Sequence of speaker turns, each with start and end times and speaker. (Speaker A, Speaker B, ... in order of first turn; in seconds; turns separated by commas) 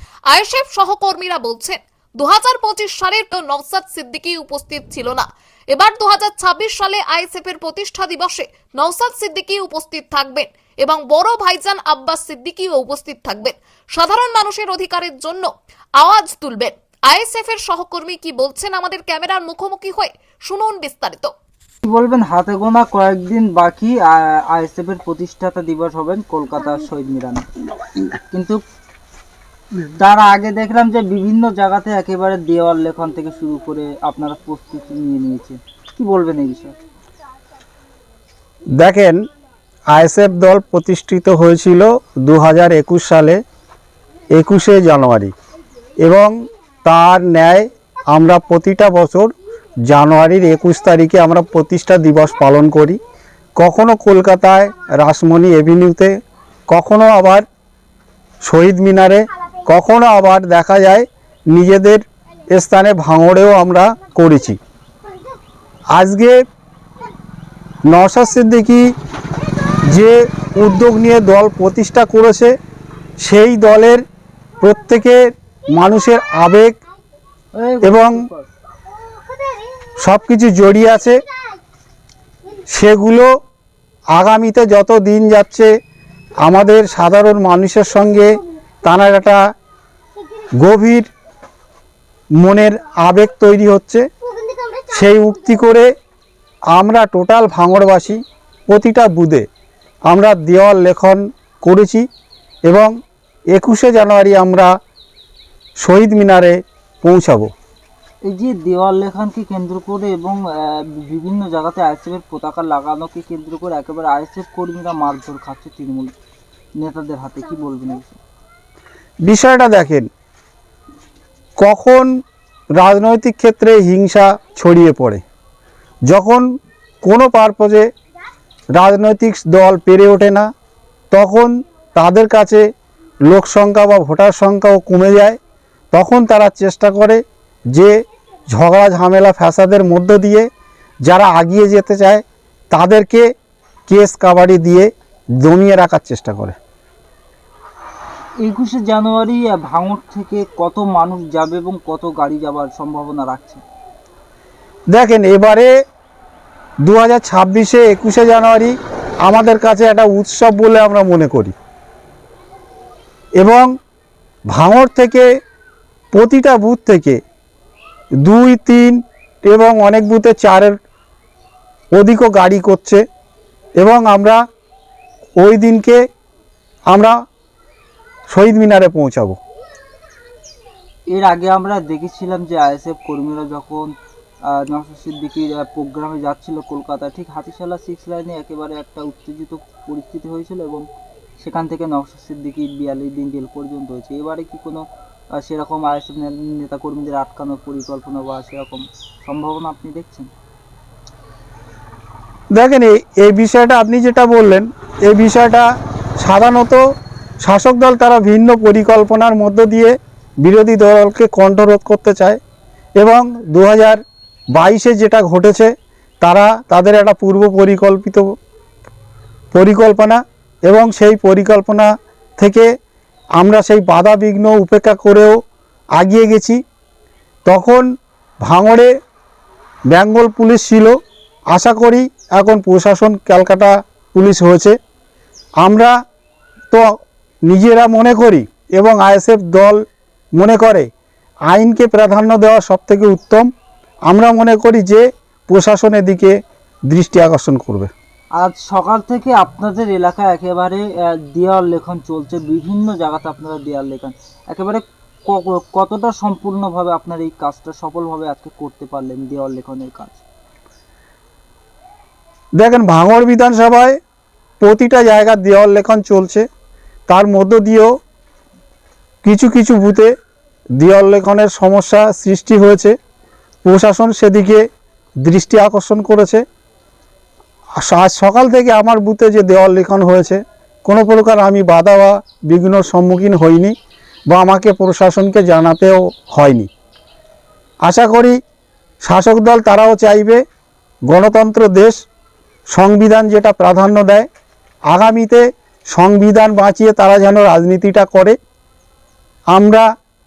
Speaker A: 0.3-15.5, Speaker A: 16.0-21.3, Speaker B: 21.8-27.5, Speaker B: 28.3-28.6, Speaker B: 29.9-36.8, Speaker C: 38.8-39.2, Speaker C: 39.9-43.4, Speaker C: 44.3-45.3, Speaker C: 46.0-46.3, Speaker C: 46.8-49.3, Speaker C: 49.9-53.0, Speaker C: 53.6-56.1, Speaker C: 56.7-57.4, Speaker C: 58.4-64.6, Speaker C: 65.9-66.4, Speaker C: 67.9-68.9, Speaker C: 69.9-72.5, Speaker C: 73.2-74.0, Speaker C: 74.6-76.8, Speaker B: 77.5-78.5, Speaker C: 77.8-78.2, Speaker C: 80.0-81.2, Speaker C: 82.7-83.3, Speaker C: 84.1-85.7, Speaker C: 86.4-89.4, Speaker C: 90.6-91.1, Speaker C: 92.4-94.0, Speaker C: 94.9-95.9, Speaker C: 96.7-99.4, Speaker C: 100.1-102.0, Speaker C: 103.5-104.7, Speaker C: 105.8-107.5, Speaker B: 108.2-116.1, Speaker B: 116.8-118.2, Speaker C: 119.2-120.1, Speaker C: 121.6-122.1, Speaker C: 122.8-125.2, Speaker C: 126.1-126.5, Speaker C: 127.0-127.9, Speaker C: 128.8-130.5, Speaker C: 131.1-132.7, Speaker C: 133.3-135.4, Speaker C: 135.9-137.2, Speaker C: 137.7-140.5, Speaker C: 141.1-143.2, Speaker C: 143.9-144.9, Speaker C: 145.4-146.6, Speaker B: 148.4-153.6, Speaker C: 154.9-155.7, Speaker C: 156.8-158.7, Speaker C: 159.2-161.5, Speaker C: 163.4-163.7, Speaker C: 164.5-165.3, Speaker C: 166.1-167.2, Speaker C: 168.2-170.7, Speaker C: 171.9-173.0, Speaker C: 173.8-174.4, Speaker C: 175.4-176.0, Speaker C: 176.9-177.1, Speaker C: 178.3-179.4, Speaker B: 181.1-183.9, Speaker B: 184.5-190.8, Speaker B: 191.4-200.3, Speaker C: 202.5-205.7, Speaker C: 206.2-206.8, Speaker C: 207.4-212.4, Speaker C: 213.0-214.0, Speaker C: 214.5-215.7, Speaker C: 216.2-218.3, Speaker C: 219.5-222.7, Speaker C: 223.4-225.3, Speaker C: 226.0-226.6, Speaker C: 227.4-227.8, Speaker C: 228.4-228.9, Speaker C: 229.9-231.0, Speaker C: 231.5-234.7, Speaker C: 235.6-235.9, Speaker C: 237.5-239.8, Speaker C: 240.3-240.9, Speaker C: 241.5-243.5, Speaker C: 244.1-246.3, Speaker C: 246.9-247.9, Speaker B: 248.3-260.2, Speaker C: 262.6-264.0, Speaker C: 264.6-266.4, Speaker C: 267.1-267.9, Speaker C: 269.2-270.1, Speaker C: 270.8-272.9, Speaker C: 273.6-274.6, Speaker C: 275.2-276.4, Speaker C: 277.8-283.7, Speaker C: 284.3-286.7, Speaker C: 287.8-288.4, Speaker C: 289.0-290.4, Speaker C: 291.1-291.9, Speaker C: 292.7-294.3, Speaker C: 294.9-298.4, Speaker C: 299.5-299.9